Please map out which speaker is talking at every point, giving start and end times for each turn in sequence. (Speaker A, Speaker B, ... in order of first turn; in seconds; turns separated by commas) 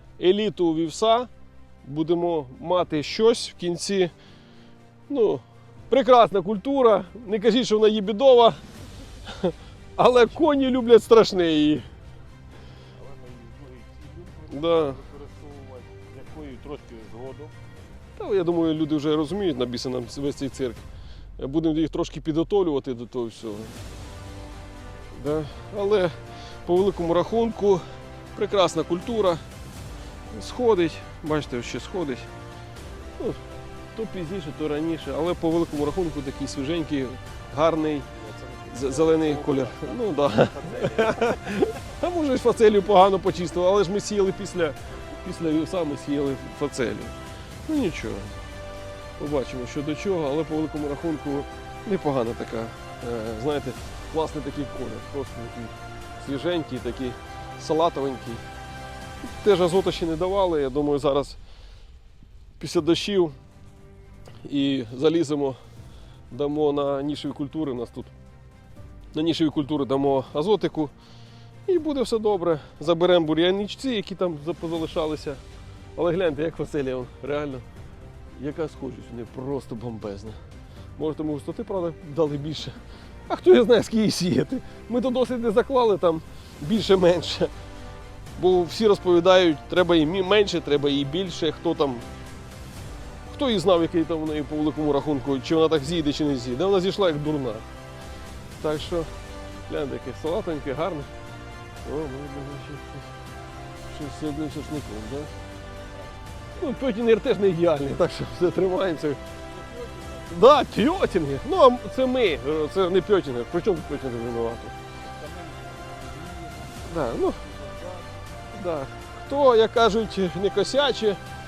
Speaker A: 0.2-1.3, Speaker A: 1.8-4.1, Speaker A: 5.1-8.6, Speaker A: 9.2-11.9, Speaker B: 12.9-17.6, Speaker A: 14.5-15.0, Speaker A: 18.2-20.8, Speaker A: 21.4-23.8, Speaker A: 25.1-27.8, Speaker A: 28.3-29.4, Speaker A: 30.3-32.3, Speaker A: 33.9-38.1, Speaker B: 38.1-41.4, Speaker A: 38.7-47.1, Speaker A: 47.6-48.4, Speaker A: 49.2-58.4, Speaker A: 59.2-61.4, Speaker A: 62.6-63.3, Speaker A: 64.4-65.6, Speaker A: 66.3-68.1, Speaker A: 69.1-70.9, Speaker A: 71.7-75.4, Speaker A: 76.0-77.7, Speaker A: 78.4-80.4, Speaker A: 81.0-87.5, Speaker A: 88.3-92.1, Speaker A: 93.3-97.7, Speaker A: 98.6-99.1, Speaker A: 99.7-101.1, Speaker A: 101.8-103.1, Speaker A: 103.9-105.3, Speaker A: 106.6-109.2, Speaker B: 109.5-110.3, Speaker A: 110.3-114.7, Speaker B: 115.1-118.2, Speaker A: 116.8-117.4, Speaker A: 118.5-121.2